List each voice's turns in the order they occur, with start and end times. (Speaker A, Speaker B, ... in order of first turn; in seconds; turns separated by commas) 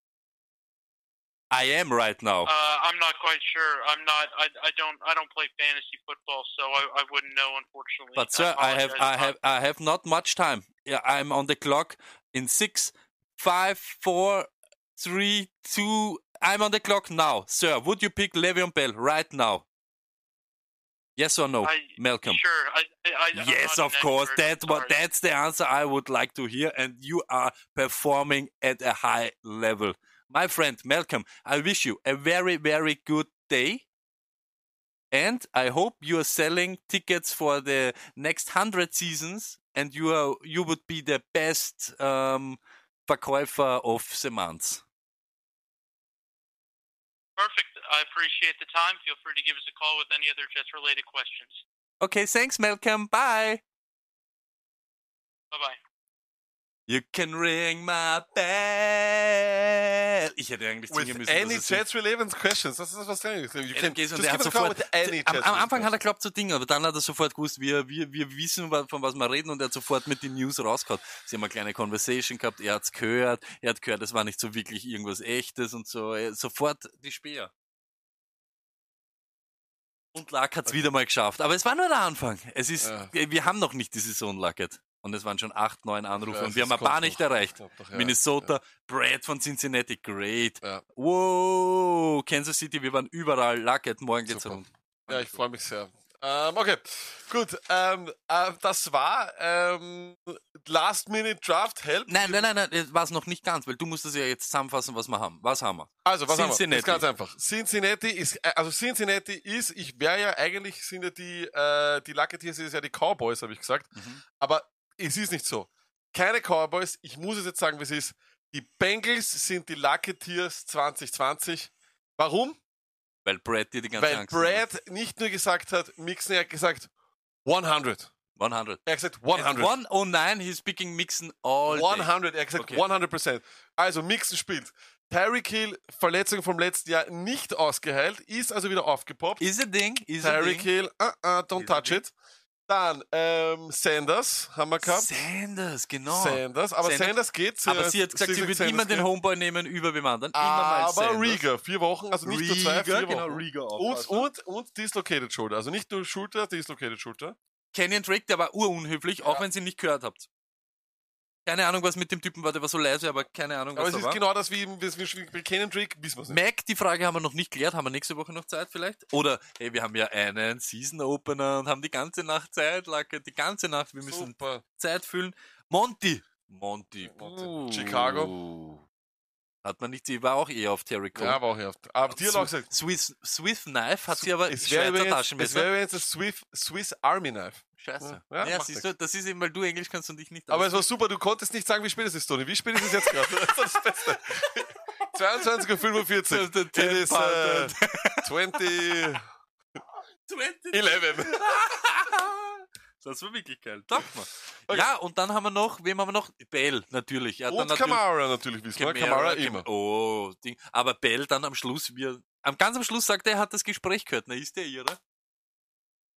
Speaker A: 1.5-2.5, Speaker B: 2.5-9.3, Speaker A: 8.2-19.6, Speaker A: 21.2-22.4, Speaker B: 21.6-24.9, Speaker A: 23.3-33.9, Speaker A: 35.1-44.8, Speaker B: 47.4-51.6, Speaker A: 52.0-53.6, Speaker B: 55.5-55.8, Speaker A: 56.9-61.8, Speaker C: 60.9-65.9, Speaker A: 63.7-77.5, Speaker A: 80.1-95.4, Speaker C: 82.8-83.1, Speaker C: 86.2-88.5, Speaker C: 94.3-102.5, Speaker A: 102.1-107.0, Speaker C: 106.0-122.6, Speaker A: 114.0-114.2, Speaker A: 123.2-124.7, Speaker C: 124.0-126.9, Speaker C: 127.5-128.1, Speaker A: 128.4-132.8, Speaker C: 128.9-129.7, Speaker C: 131.7-139.4, Speaker A: 139.4-140.7, Speaker C: 140.2-142.1, Speaker A: 141.6-142.0, Speaker C: 142.7-145.2, Speaker A: 144.8-151.4, Speaker C: 146.1-149.1, Speaker C: 150.3-157.4, Speaker A: 152.2-154.3, Speaker A: 157.7-160.3, Speaker A: 161.5-164.2, Speaker C: 163.8-166.4, Speaker A: 166.3-178.8, Speaker C: 174.0-174.6, Speaker C: 177.1-178.3, Speaker A: 179.6-181.4, Speaker C: 181.2-182.7, Speaker A: 182.1-185.7, Speaker C: 184.1-188.8, Speaker A: 187.8-190.8, Speaker C: 190.5-199.2, Speaker A: 192.8-194.0, Speaker A: 195.4-199.0, Speaker A: 200.3-208.0, Speaker C: 200.7-201.4, Speaker C: 207.5-209.7, Speaker A: 208.8-215.0